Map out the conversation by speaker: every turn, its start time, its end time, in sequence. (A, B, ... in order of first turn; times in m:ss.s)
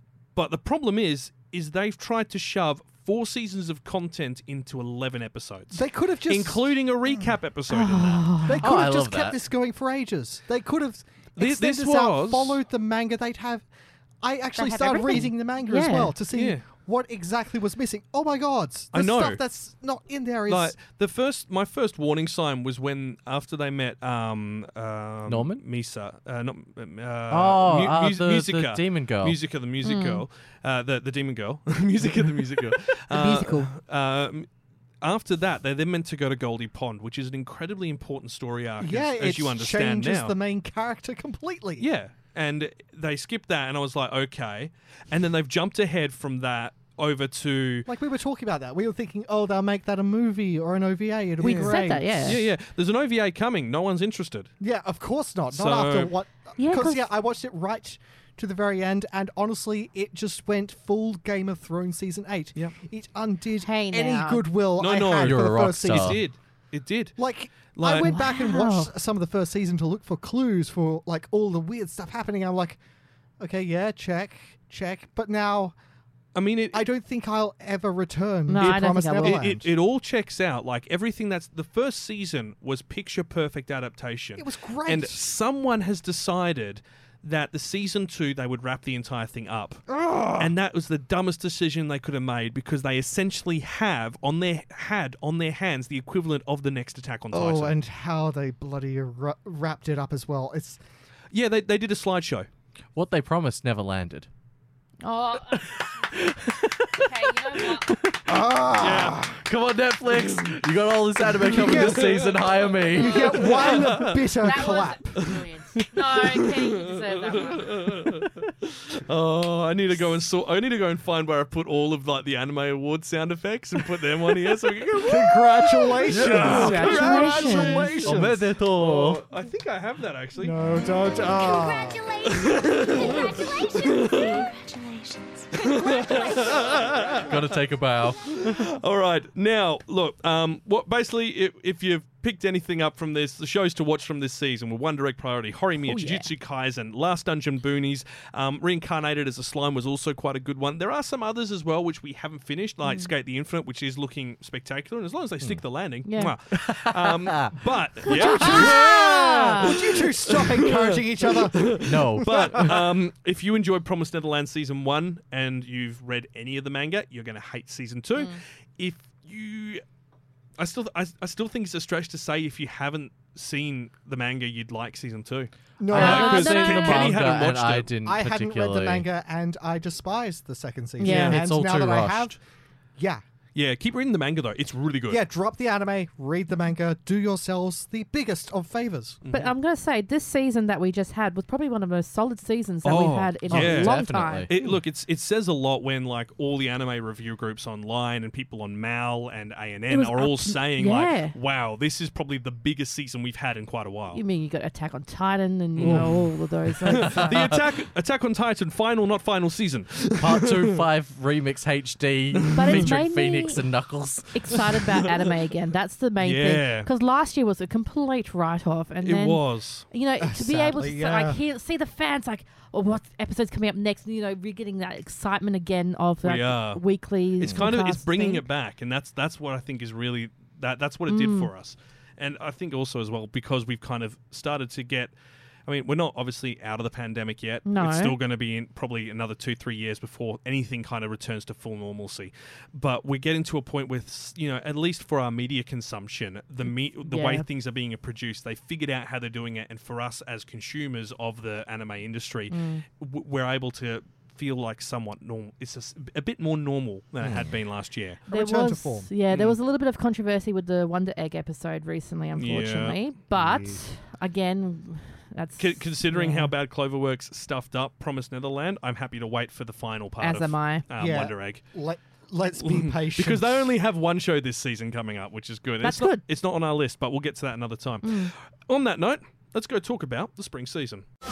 0:00.4-0:08.3 A
0:05.7-0:07.4 B
0:07.7-0:08.7 C
0:08.4-0:13.7 B
0:08.6-0:09.4 D
0:11.4-0:12.6 A
0:14.2-0:20.8 B
0:14.6-0:16.1 C
0:16.3-0:16.7 A
0:18.9-0:19.4 A
0:20.5-0:34.5 A
0:25.3-0:25.6 D
0:27.3-0:29.4 D
0:29.8-0:30.2 C
0:33.1-0:33.7 C
0:35.0-0:40.3 A
0:38.8-0:41.9 B
0:41.8-0:47.9 A
0:47.9-0:52.4 B
0:51.4-0:52.4 C
0:51.4-0:54.5 A
0:54.6-1:06.2 B
0:55.5-0:56.1 A
0:56.6-0:57.1 C
1:03.6-1:04.4 C
1:04.8-1:08.1 A
1:05.1-1:06.2 D
1:07.2-1:12.8 B
1:08.0-1:08.9 C
1:13.4-1:15.8 B
1:16.4-1:16.8 A
1:16.7-1:19.7 B
1:18.5-1:19.4 C
1:18.6-1:29.8 A
1:24.4-1:25.3 B
1:29.9-1:30.5 B
1:30.4-1:37.8 A
1:37.3-1:40.8 B
1:41.3-1:42.5 A
1:43.0-1:44.3 D
1:45.0-1:45.9 C
1:45.6-1:53.4 D
1:47.0-1:47.9 C
1:48.3-1:49.4 B
1:48.8-1:49.3 A
1:50.2-1:50.5 A
1:51.3-1:52.3 B
1:51.4-1:52.8 A
1:52.9-1:55.3 B
1:53.0-1:57.9 C
1:53.5-1:54.2 A
1:55.2-2:10.6 A
2:05.0-2:08.4 B
2:06.1-2:06.9 D
2:06.4-2:08.0 C
2:08.0-2:09.2 D
2:10.4-2:12.0 B
2:11.1-2:17.2 E
2:12.2-2:14.5 A
2:15.5-2:17.6 A
2:17.3-2:18.6 D
2:18.2-2:49.8 A
2:25.8-2:26.3 C
2:32.8-2:33.1 C
2:36.1-2:36.4 C
2:36.5-2:37.6 D
2:38.1-2:39.8 C
2:38.1-2:42.8 B
2:41.8-2:42.8 D
2:50.6-2:57.9 A
2:55.8-2:57.2 B
2:55.9-2:57.2 C
2:55.9-2:59.1 D
2:58.0-3:02.4 B
3:01.0-3:01.4 C
3:01.0-3:01.4 A
3:01.1-3:02.4 D
3:03.0-3:03.2 B
3:03.6-3:05.2 A
3:05.1-3:09.2 B
3:09.2-3:09.5 A
3:09.3-3:14.5 C
3:12.8-3:24.2 A
3:13.5-3:14.5 D
3:19.9-3:21.4 C
3:24.1-3:27.6 C
3:25.8-3:26.2 A
3:25.8-3:26.1 D
3:27.0-3:30.8 A
3:27.0-3:27.4 D
3:30.2-3:34.6 D
3:32.5-3:32.9 A
3:32.5-3:33.6 C
3:34.3-3:48.4 C
3:36.2-3:36.9 A
3:39.0-3:39.9 A
3:40.2-3:41.4 B
3:46.2-3:46.8 A
3:47.4-3:55.1 A
3:51.1-3:51.5 C
3:55.7-4:18.2 A
3:57.7-3:58.2 C
4:07.0-4:07.5 C
4:12.5-4:12.8 C
4:17.2-4:17.6 D
4:18.3-4:19.1 B
4:18.3-4:26.5 C
4:19.3-4:19.6 A
4:22.4-4:23.0 A
4:23.3-4:23.8 B
4:25.6-4:31.6 A
4:30.2-4:30.9 C
4:31.0-4:33.8 B
4:32.6-4:41.1 A
4:35.8-4:36.2 C
4:38.0-4:38.3 C